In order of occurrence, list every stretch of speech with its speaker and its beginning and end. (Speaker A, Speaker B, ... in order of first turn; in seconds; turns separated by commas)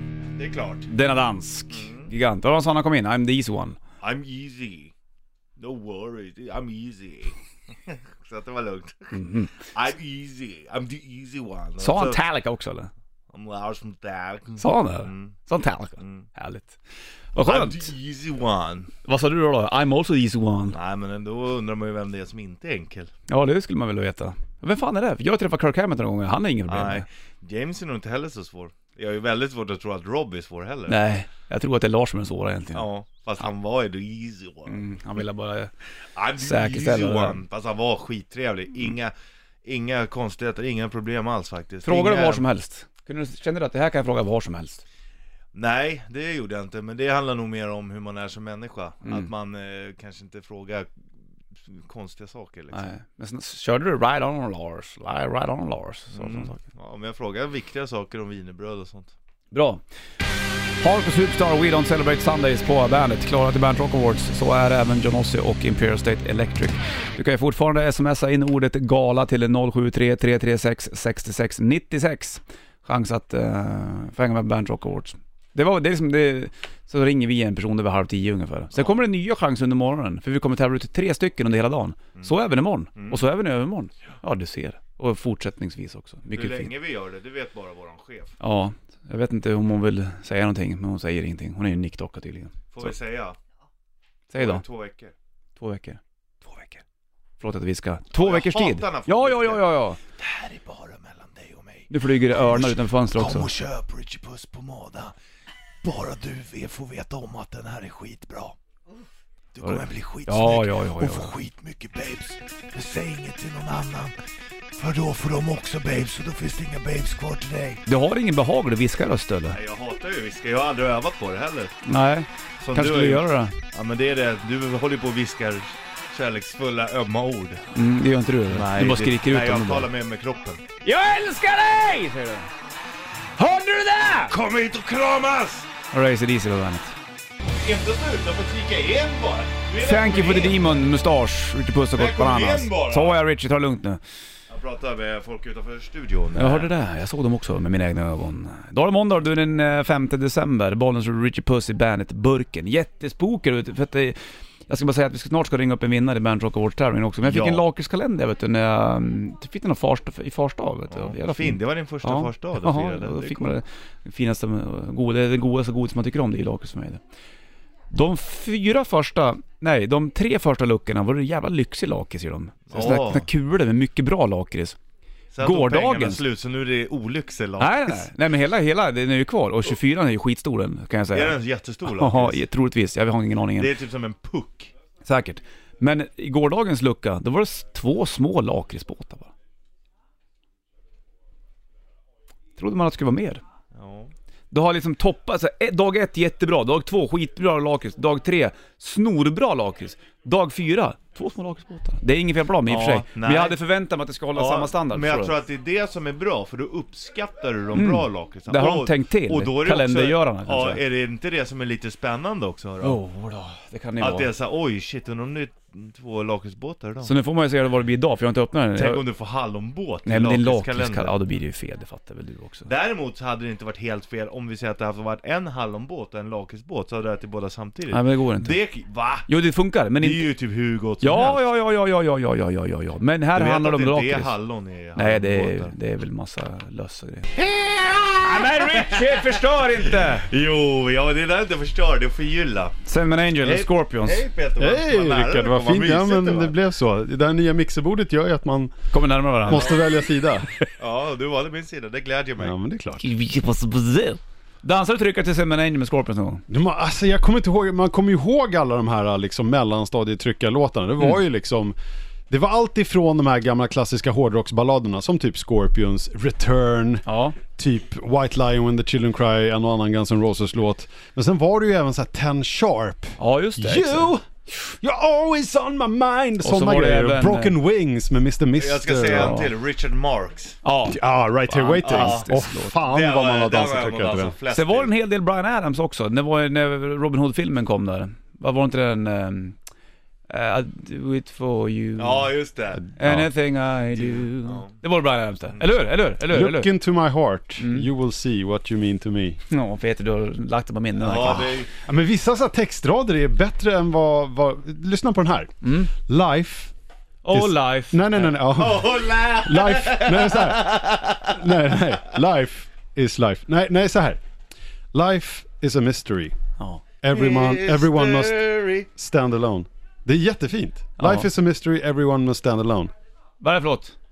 Speaker A: 0.3-0.9, Speaker B: 0.9-3.8, Speaker A: 1.7-2.1, Speaker A: 4.0-4.9, Speaker A: 5.6-12.2, Speaker B: 9.1-9.5, Speaker B: 11.8-12.9, Speaker A: 13.3-15.3, Speaker B: 14.6-17.9, Speaker A: 16.0-16.3, Speaker A: 17.4-18.9, Speaker B: 19.0-20.8, Speaker A: 20.7-23.1, Speaker B: 23.3-27.1, Speaker A: 26.7-31.0, Speaker B: 30.9-32.9, Speaker A: 32.7-34.8, Speaker B: 34.6-35.7, Speaker A: 36.1-42.4, Speaker B: 36.4-37.4, Speaker B: 41.8-44.8, Speaker A: 45.5-50.9, Speaker A: 51.5-52.9, Speaker B: 52.7-56.6, Speaker A: 56.1-59.1, Speaker B: 59.5-59.8, Speaker B: 60.8-86.7, Speaker A: 78.7-79.0, Speaker A: 82.9-83.2, Speaker A: 86.3-88.4, Speaker B: 88.4-92.9, Speaker A: 92.7-93.4, Speaker B: 94.3-94.6, Speaker A: 94.3-95.1, Speaker B: 95.6-96.8, Speaker B: 97.4-100.0, Speaker A: 98.1-105.1, Speaker B: 101.9-103.5, Speaker A: 105.8-108.6, Speaker A: 109.5-114.2, Speaker B: 109.6-111.3, Speaker A: 114.8-117.8, Speaker B: 117.8-119.6, Speaker A: 119.5-121.8, Speaker B: 121.8-123.6, Speaker A: 122.6-127.6, Speaker B: 127.7-129.9, Speaker A: 128.5-130.6, Speaker B: 130.8-132.5, Speaker B: 133.3-134.3, Speaker A: 134.3-135.7, Speaker B: 135.9-137.0, Speaker A: 137.6-140.7, Speaker B: 139.8-144.0, Speaker A: 141.9-143.2, Speaker A: 144.5-146.7, Speaker B: 146.3-167.0, Speaker A: 157.2-157.7, Speaker A: 160.9-163.6, Speaker B: 167.9-174.8, Speaker A: 172.7-173.3, Speaker A: 175.3-178.1, Speaker B: 175.4-176.2, Speaker B: 177.6-183.7, Speaker A: 181.1-182.4, Speaker A: 183.6-184.7, Speaker B: 185.0-189.3, Speaker B: 192.6-193.4, Speaker A: 193.7-194.1, Speaker B: 194.5-205.3, Speaker A: 202.7-203.6, Speaker A: 204.3-213.0, Speaker B: 207.7-210.8, Speaker B: 212.8-214.3, Speaker A: 214.0-217.1, Speaker B: 217.0-219.0, Speaker A: 218.7-221.1, Speaker B: 220.1-222.7, Speaker A: 222.6-229.3, Speaker B: 227.9-228.6, Speaker B: 229.3-230.2, Speaker A: 230.0-231.4, Speaker B: 231.0-234.3, Speaker A: 233.3-235.7, Speaker B: 234.9-237.3, Speaker A: 237.3-242.8, Speaker B: 238.2-240.3, Speaker B: 242.8-244.2, Speaker A: 243.4-246.6, Speaker C: 244.6-248.7, Speaker B: 248.9-249.8, Speaker C: 249.4-250.5, Speaker A: 250.8-252.5, Speaker C: 252.4-253.1, Speaker B: 253.0-256.4, Speaker C: 256.5-261.7, Speaker C: 262.3-279.4, Speaker B: 267.1-267.4, Speaker B: 273.2-274.1, Speaker B: 276.4-277.5, Speaker A: 278.6-280.6, Speaker B: 279.1-279.5, Speaker B: 280.6-282.7, Speaker C: 280.8-284.3, Speaker A: 281.8-284.9, Speaker B: 284.5-289.6, Speaker B: 290.3-292.3, Speaker A: 292.0-292.9, Speaker B: 292.9-296.7, Speaker A: 293.9-294.7, Speaker C: 296.2-299.4, Speaker B: 297.6-297.9, Speaker B: 299.5-301.6, Speaker A: 300.9-301.7, Speaker C: 301.8-306.7, Speaker B: 305.6-305.9, Speaker B: 307.2-308.4, Speaker C: 307.3-314.2, Speaker A: 308.5-311.8, Speaker C: 314.9-316.3, Speaker B: 316.6-316.8, Speaker C: 317.0-322.9, Speaker A: 317.1-318.9, Speaker B: 321.0-321.3, Speaker B: 323.4-323.9